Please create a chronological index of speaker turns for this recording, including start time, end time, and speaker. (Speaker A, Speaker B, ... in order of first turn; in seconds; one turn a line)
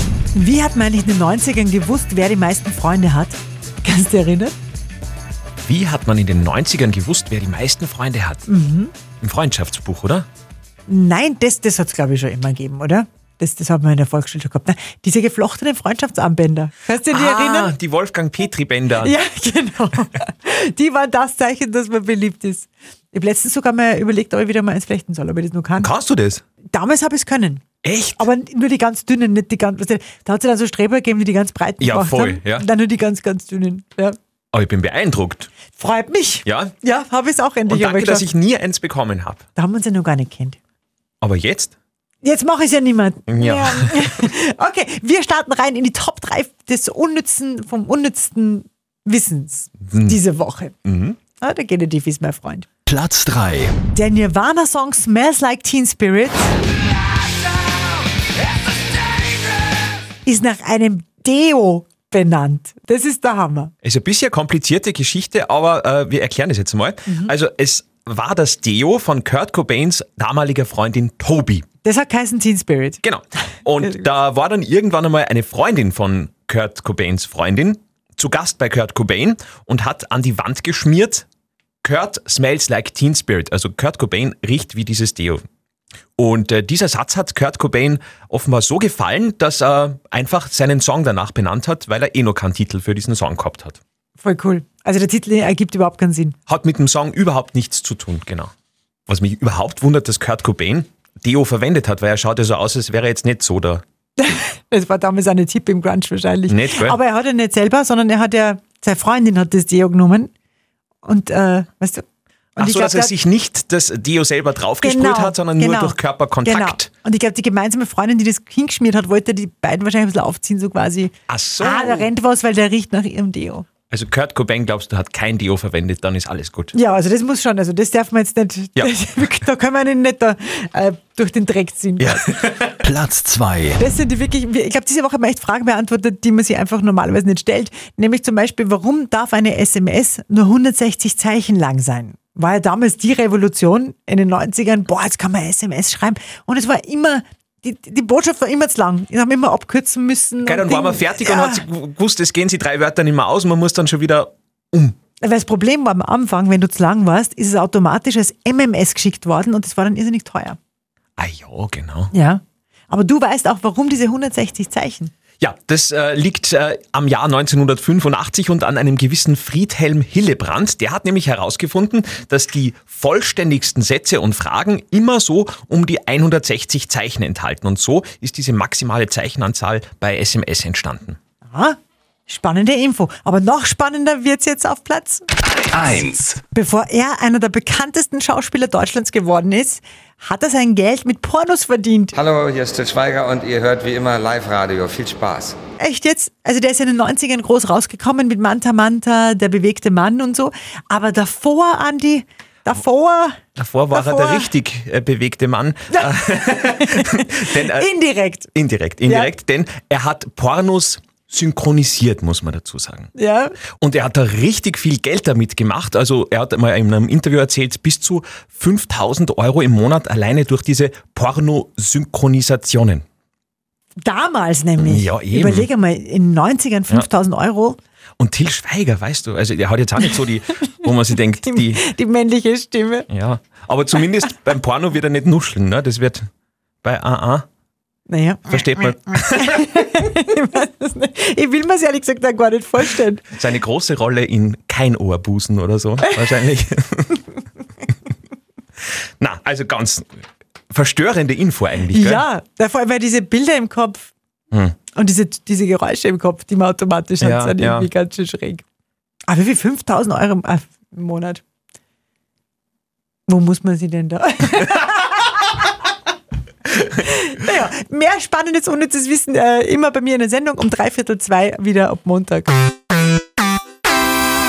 Speaker A: 0.3-4.5
Speaker B: 5.6-8.4
Speaker A: 8.5-8.9
Speaker B: 9.2-10.3
Speaker A: 10.9-17.7
Speaker B: 17.1-19.1
Speaker A: 19.0-25.9
Speaker B: 25.8-26.4
Speaker A: 26.7-27.6
Speaker B: 27.8-28.2
Speaker A: 28.2-34.1
Speaker B: 31.8-32.6
Speaker B: 34.5-35.5
Speaker A: 35.7-38.3
Speaker B: 36.5-36.7
Speaker B: 37.7-39.4
Speaker A: 39.5-40.6
Speaker B: 41.2-41.7
Speaker A: 42.2-50.8
Speaker B: 43.3-44.1
Speaker B: 50.9-51.2
Speaker A: 51.4-52.7
Speaker C: 52.9-53.8
Speaker A: 53.9-56.5
Speaker A: 60.2-63.7
Speaker B: 63.8-71.7
Speaker A: 71.8-73.0
Speaker B: 73.0-81.2
Speaker B: 81.8-85.4
Speaker B: 86.2-93.8
Speaker A: 94.2-96.3
Speaker B: 96.5-98.5
Speaker B: 99.1-103.8
Speaker A: 104.2-110.3
Speaker B: 106.5-107.0
Speaker A: 111.0-112.0
Speaker A: 112.5-113.1
Speaker B: 112.6-116.9
Speaker A: 114.8-123.7
Speaker B: 121.3-122.1
Speaker B: 123.9-126.7
Speaker A: 126.7-132.2
Speaker B: 132.0-132.8
Speaker C: 132.8-133.8
Speaker A: 133.8-151.6
Speaker B: 150.4-154.9
Speaker A: 155.2-160.6
Speaker B: 161.2-162.1
Speaker A: 162.1-165.1
Speaker B: 165.4-181.2
Speaker A: 181.5-185.2
Speaker C: 185.7-186.2
Speaker A: 186.5-192.1
Speaker D: 192.1-195.6
Speaker A: 195.8-203.4
Speaker B: 203.6-207.8
Speaker A: 203.9-204.5
Speaker A: 205.9-208.5
Speaker B: 208.5-213.1
Speaker A: 209.0-209.3
Speaker A: 213.1-213.6
Speaker B: 213.8-223.0
Speaker A: 224.0-227.8
Speaker B: 224.8-225.7
Speaker B: 228.2-231.8
Speaker A: 231.4-233.1
Speaker B: 233.1-236.2
Speaker B: 236.8-237.4
Speaker A: 238.1-243.3
Speaker B: 238.5-239.7
Speaker B: 243.3-247.2
Speaker A: 246.0-246.4
Speaker B: 249.2-250.1
Speaker B: 250.7-252.2
Speaker A: 251.9-254.1
Speaker A: 254.9-258.6
Speaker B: 257.2-257.9
Speaker A: 259.2-261.4
Speaker A: 263.3-265.6
Speaker A: 266.9-272.6